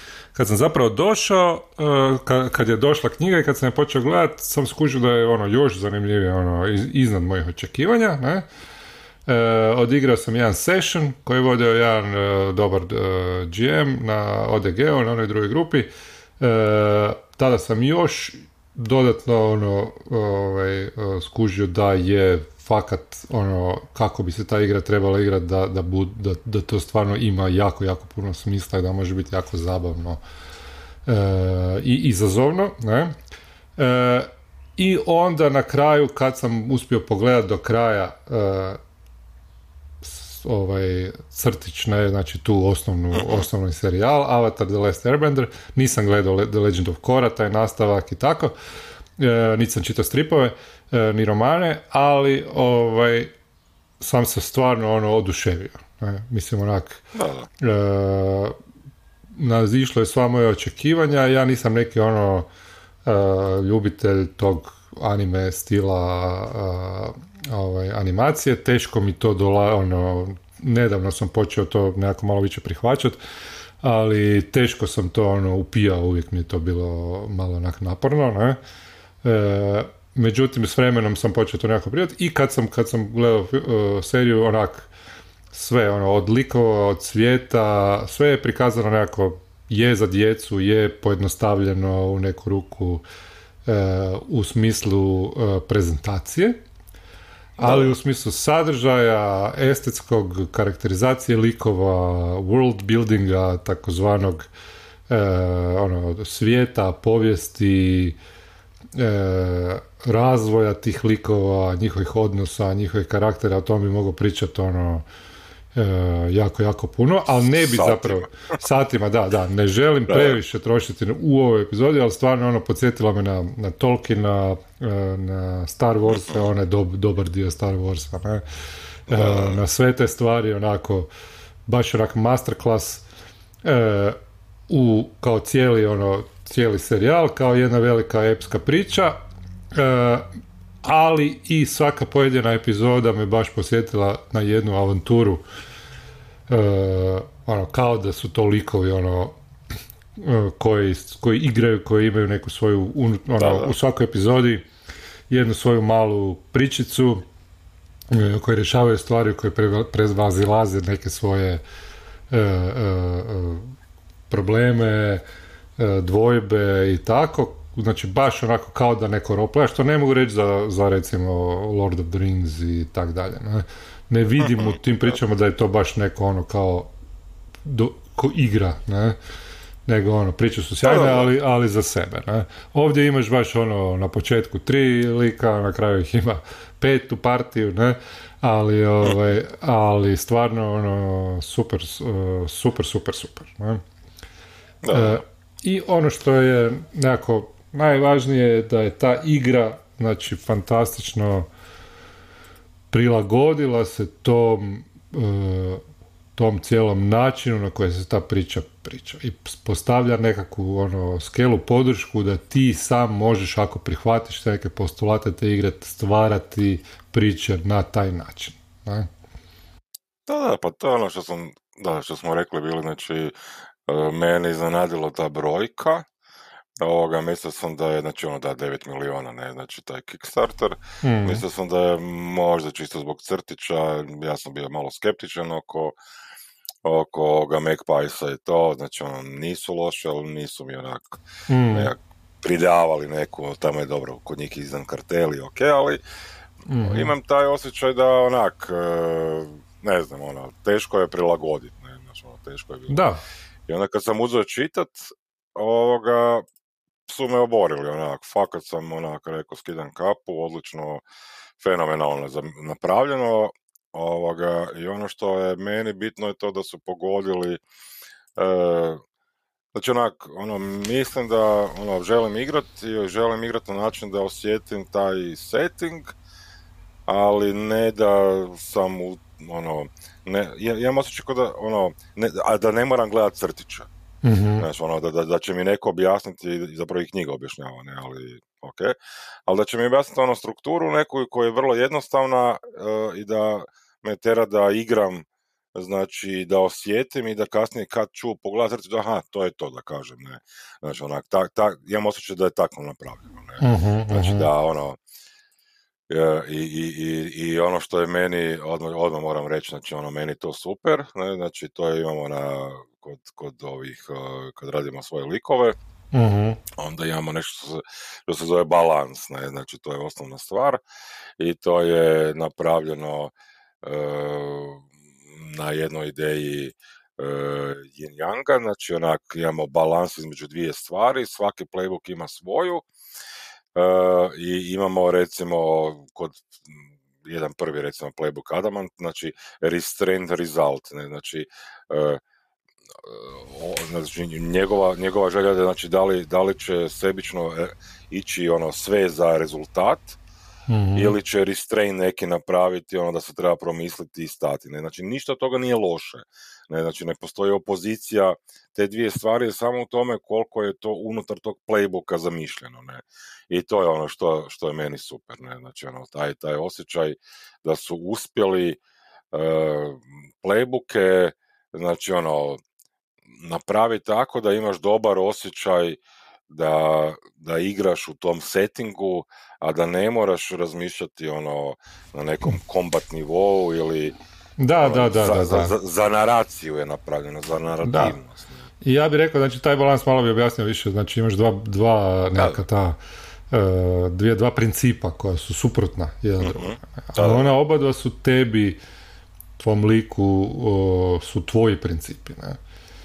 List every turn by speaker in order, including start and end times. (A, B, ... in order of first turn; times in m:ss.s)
0:00.3-0:08.4 A
0:09.3-0:15.9 A
0:16.4-0:30.2 A
0:31.0-0:33.1 A
0:33.8-0:38.8 A
0:40.0-0:48.5 A
0:43.1-0:43.4 B
0:49.2-0:53.3 A
0:54.0-0:57.0 A
0:57.1-0:57.5 B
0:57.6-0:58.6 A
0:59.3-1:02.5 A
1:03.0-1:13.2 A
1:13.8-1:18.6 A
1:19.2-1:24.9 A
1:25.5-1:33.0 A
1:33.6-1:36.6 A
1:37.6-1:44.5 A
1:37.6-1:37.9 B
1:45.1-1:48.2 A
1:48.9-1:55.0 A
1:55.7-2:08.4 A
1:57.5-1:58.3 B
2:00.1-2:00.4 B
2:06.1-2:06.4 B
2:09.1-2:09.6 B
2:09.1-2:11.1 A
2:11.7-2:13.0 A
2:13.6-2:14.2 A
2:14.7-2:19.2 A
2:19.7-2:20.3 A
2:20.8-2:25.4 A
2:26.5-2:29.4 A
2:30.2-2:34.6 A
2:33.4-2:33.7 B
2:35.3-2:37.2 A
2:38.1-2:41.6 A
2:42.3-2:43.7 A
2:44.3-2:45.2 A
2:45.8-2:56.9 A
2:54.4-2:54.8 B
2:57.6-2:59.2 A
2:59.8-3:13.8 A
3:00.8-3:01.3 B
3:14.8-3:15.2 B
3:14.9-3:21.5 A
3:22.9-3:25.8 A
3:26.3-3:39.1 A
3:40.2-3:43.3 B
3:43.9-3:46.1 B
3:46.8-3:56.0 B
3:51.0-3:51.4 A
3:56.8-4:06.0 B
4:01.5-4:01.9 A
4:06.6-4:07.1 A
4:06.8-4:13.0 B
4:12.9-4:13.2 A
4:13.7-4:16.4 B
4:17.1-4:21.0 B
4:21.6-4:27.6 B
4:28.4-4:29.0 B
4:29.7-4:36.1 B
4:37.1-4:43.9 B
4:44.2-4:44.7 A
4:44.6-5:05.0 B
5:03.6-5:04.5 A
5:06.1-5:15.8 B
5:16.1-5:16.6 A
5:16.8-5:20.8 B
5:21.4-5:32.9 B
5:33.7-5:42.2 B
5:43.0-5:50.2 B
5:50.7-5:51.2 A
5:50.9-6:08.8 B
6:09.3-6:12.6 B
6:13.3-6:24.2 B
6:24.6-6:25.7 A
6:24.8-6:28.6 B
6:27.8-6:28.1 A
6:28.8-6:38.8 A
6:32.4-6:32.6 B
6:36.4-6:37.5 B
6:39.6-6:42.6 A